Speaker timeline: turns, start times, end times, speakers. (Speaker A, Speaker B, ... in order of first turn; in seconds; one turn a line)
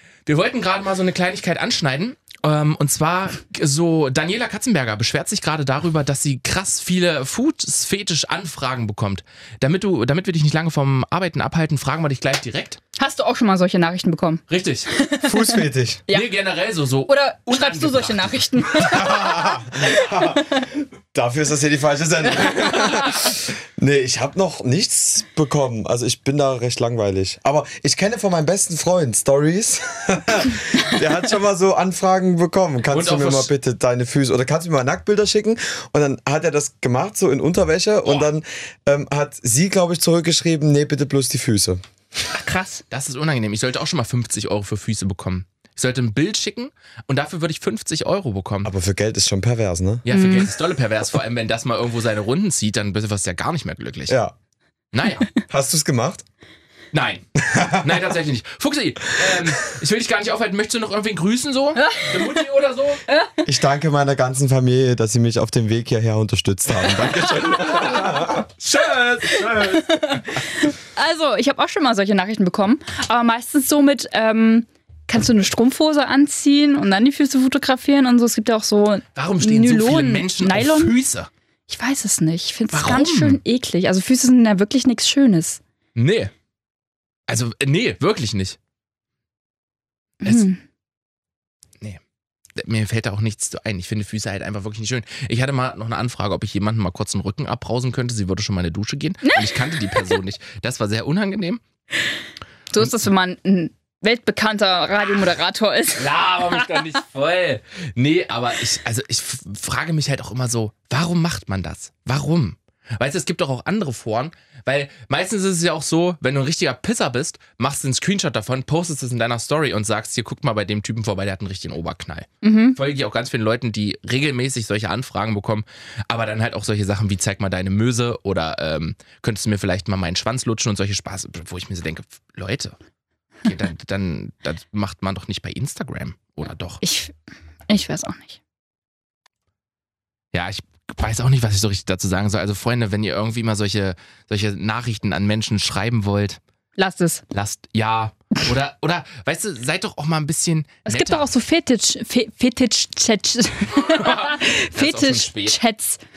Speaker A: 0.3-12.8
Speaker B: 13.0-16.3
Speaker A: 14.5-14.9
Speaker C: 15.2-16.0
Speaker A: 16.1-18.9
Speaker B: 17.1-20.7
Speaker C: 18.8-41.8
Speaker A: 22.5-23.3
Speaker A: 32.9-33.5
Speaker B: 42.3-42.8
Speaker A: 42.9-48.7
Speaker C: 48.6-50.0
Speaker A: 50.0-54.2
Speaker B: 50.1-50.5
Speaker C: 54.1-54.4
Speaker A: 54.9-55.3
Speaker C: 55.5-56.2
Speaker A: 56.9-63.0
Speaker C: 57.4-58.0
Speaker B: 61.8-62.4
Speaker C: 63.5-68.5
Speaker A: 67.1-70.2
Speaker B: 69.5-80.9
Speaker A: 79.2-81.3
Speaker B: 81.7-85.6
Speaker A: 82.7-83.4
Speaker A: 86.0-86.3
Speaker A: 87.3-88.6
Speaker B: 90.2-90.6
Speaker A: 92.6-101.6
Speaker B: 99.2-100.1
Speaker B: 102.7-106.7
Speaker A: 106.0-132.8
Speaker B: 122.4-122.8
Speaker A: 133.4-136.8
Speaker B: 136.8-137.1
Speaker B: 137.7-138.4
Speaker A: 140.3-146.4
Speaker B: 146.8-147.2
Speaker A: 147.3-151.3
Speaker B: 150.9-156.0
Speaker A: 153.8-155.6